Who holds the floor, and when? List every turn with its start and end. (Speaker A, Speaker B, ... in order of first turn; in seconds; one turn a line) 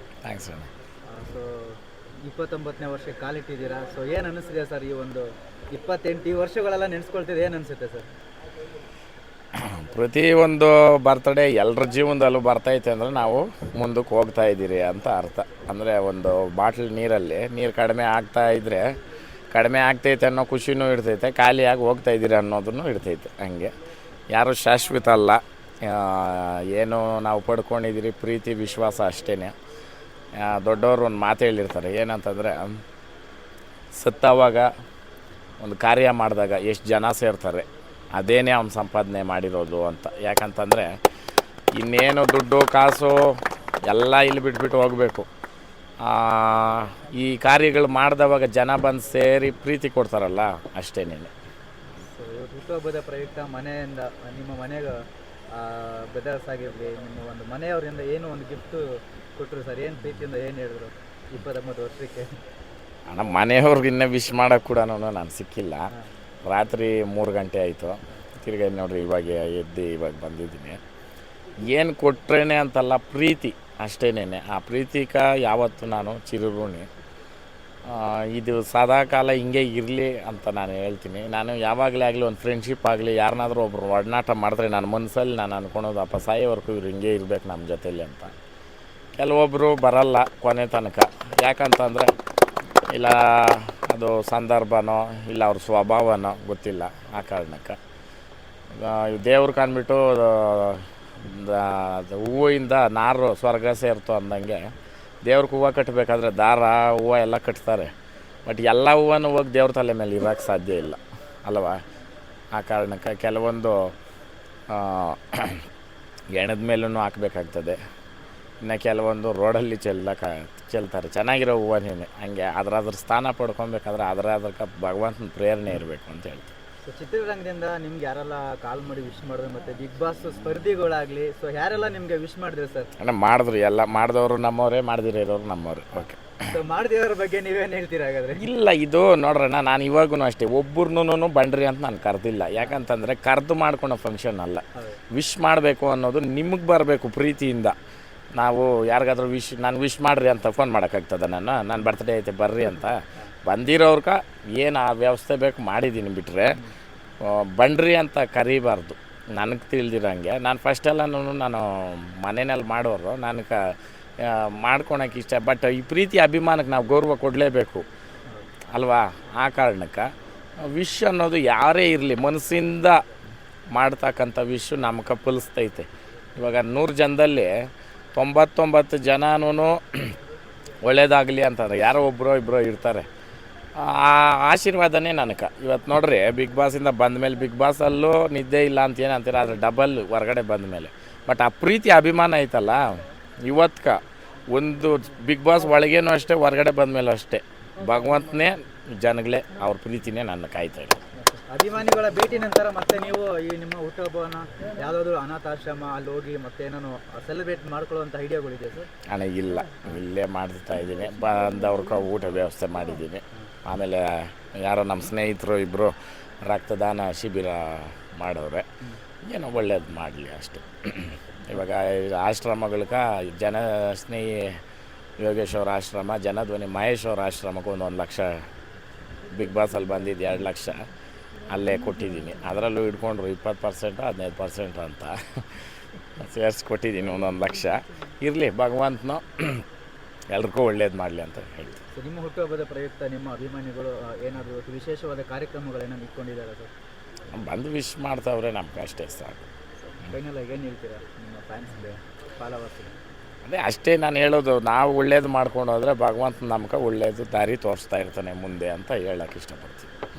Speaker A: 0.2-0.7
Speaker B: 1.1-8.1
Speaker A: 9.6-18.9
Speaker A: 19.5-23.7
Speaker A: 24.3-29.5
Speaker A: 30.4-32.8
Speaker A: 34.0-34.7
Speaker A: 35.6-40.9
Speaker A: 41.8-45.3
Speaker A: 46.0-51.3
Speaker B: 52.1-55.0
Speaker B: 55.5-58.9
Speaker B: 59.4-62.4
Speaker A: 63.1-65.9
Speaker A: 66.5-70.8
Speaker A: 71.7-76.9
Speaker A: 77.8-88.3
Speaker A: 89.2-92.1
Speaker A: 92.9-97.8
Speaker A: 98.7-104.6
Speaker A: 105.2-107.9
Speaker A: 108.5-111.8
Speaker A: 112.5-114.0
Speaker A: 114.7-115.7
Speaker A: 116.3-117.8
Speaker A: 118.6-126.5
Speaker B: 126.9-132.9
Speaker A: 133.0-136.3
Speaker B: 136.5-138.4
Speaker A: 138.4-147.8
Speaker B: 144.8-145.0
Speaker A: 148.3-156.6
Speaker A: 157.2-167.9
Speaker A: 168.7-170.1
Speaker A: 170.6-173.0
Speaker A: 173.8-180.2
Speaker A: 180.8-183.1
Speaker A: 183.8-194.0
Speaker A: 194.5-201.0
Speaker B: 201.3-208.9
Speaker A: 209.1-215.9
Speaker A: 216.4-218.7
Speaker A: 219.2-224.6
Speaker A: 225.2-228.3
Speaker A: 229.3-230.9
Speaker A: 231.5-235.6
Speaker A: 236.2-239.6
Speaker A: 240.3-241.8
Speaker B: 241.9-246.7
Speaker A: 247.3-249.5
Speaker B: 249.9-252.9
Speaker A: 253.4-259.9